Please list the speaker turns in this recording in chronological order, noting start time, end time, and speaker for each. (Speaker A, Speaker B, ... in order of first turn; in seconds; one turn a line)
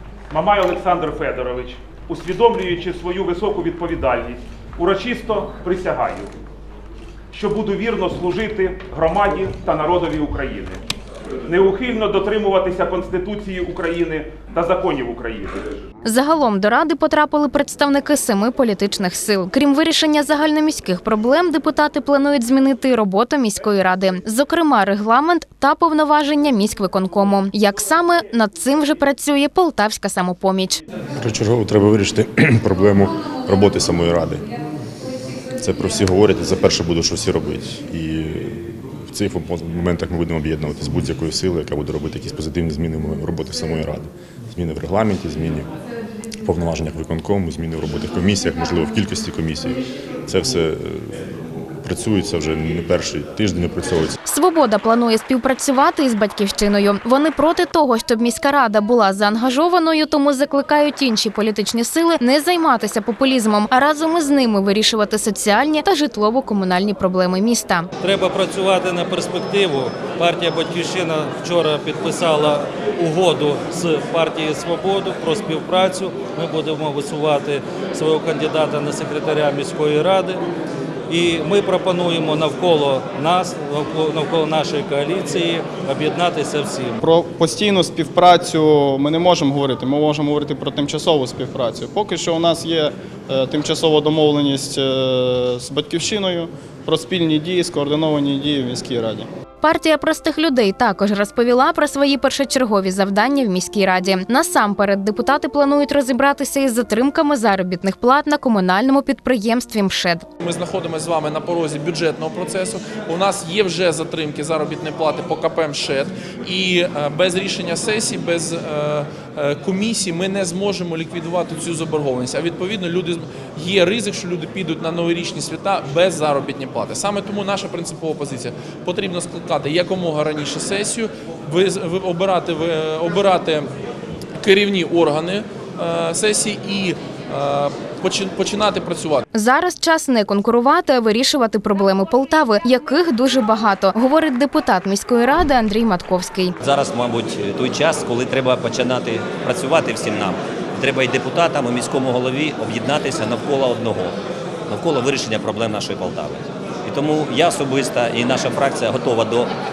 Speaker A: 0.3-6.3
Speaker A: 7.3-10.8
Speaker A: 11.4-15.7
Speaker B: 16.1-30.8
Speaker C: 31.2-34.5
Speaker C: 35.5-45.7
Speaker C: 46.4-54.2
Speaker B: 54.2-67.9
Speaker D: 68.0-80.4
Speaker D: 81.1-87.0
Speaker E: 87.0-99.3
Speaker B: 99.6-110.2
Speaker F: 110.4-133.7
Speaker F: 134.4-139.2
Speaker B: 139.3-146.5
Speaker G: 146.6-154.1
Speaker G: 154.7-159.5